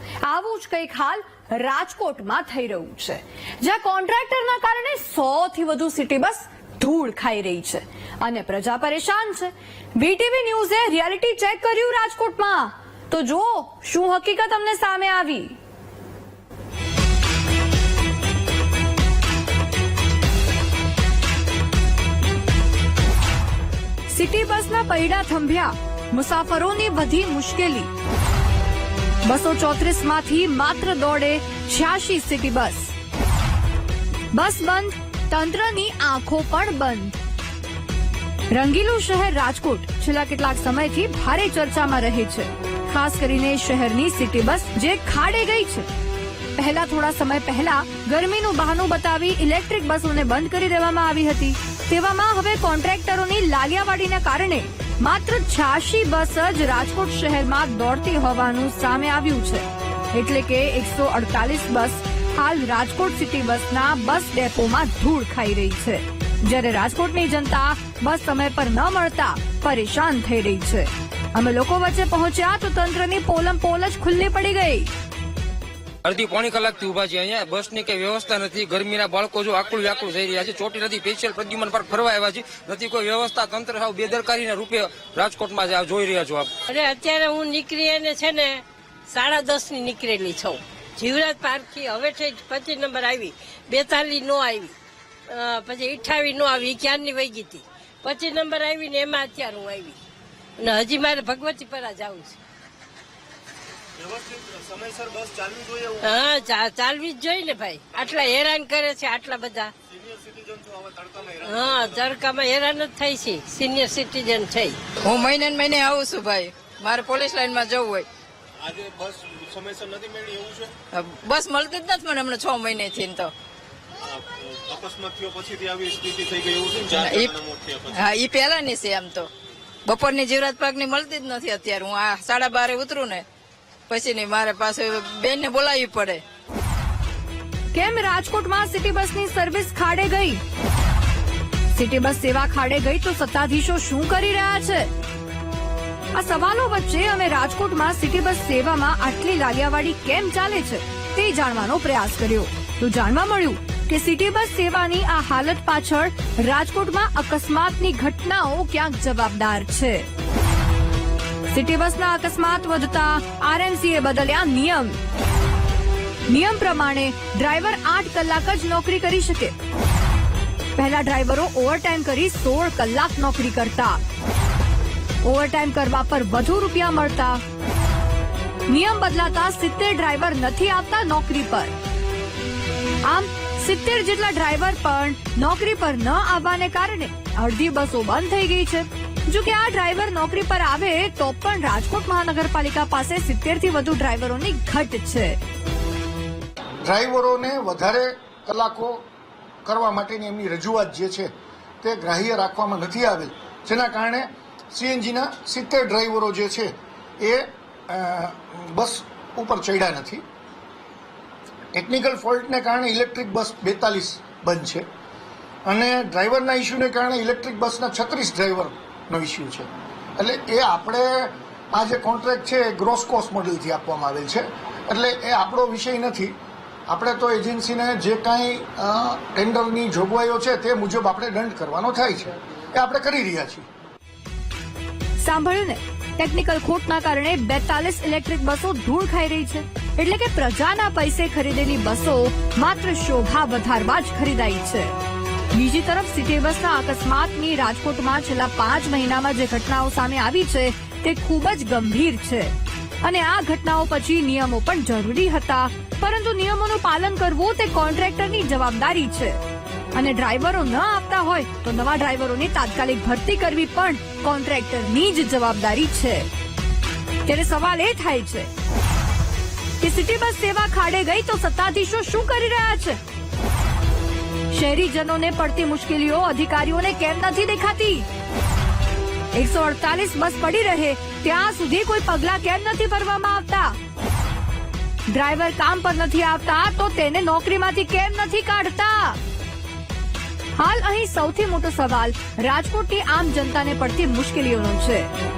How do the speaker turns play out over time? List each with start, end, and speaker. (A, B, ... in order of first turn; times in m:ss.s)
0:00.2-0:15.6 A
0:24.1-0:27.9 A
0:29.3-0:32.9 A
0:34.3-0:37.2 A
0:38.5-0:45.9 A
0:46.6-1:14.9 A
1:16.0-1:26.5 B
1:26.7-1:34.7 C
1:35.3-1:40.0 C
1:40.6-1:42.4 C
1:44.0-1:46.2 D
1:46.0-1:49.7 C
1:49.9-1:52.1 D
1:51.4-1:54.8 C
1:55.0-1:58.1 E
1:58.6-2:00.7 D
2:00.9-2:03.3 E
2:04.0-2:07.9 D
2:07.0-2:09.3 E
2:09.8-2:13.3 E
2:13.9-2:16.2 E
2:17.7-2:20.4 A
2:21.7-2:24.9 A
2:26.1-2:40.1 A
2:41.5-2:45.0 A
2:46.3-2:49.6 A
2:50.8-2:54.0 A
2:55.2-2:57.4 A
2:58.7-3:01.8 A
3:03.0-3:15.4 A
3:16.8-3:19.1 F
3:19.6-3:30.2 F
3:31.7-3:34.9 F
3:35.7-3:46.4 F
3:46.9-3:53.7 F
3:55.2-4:05.0 A
4:05.5-4:19.4 A
4:20.0-4:26.3 A
4:27.2-4:28.5 A
4:29.8-4:33.0 A
4:34.5-4:38.1 A
4:39.3-4:43.8 A
4:45.1-4:49.2 A
4:50.6-4:55.1 A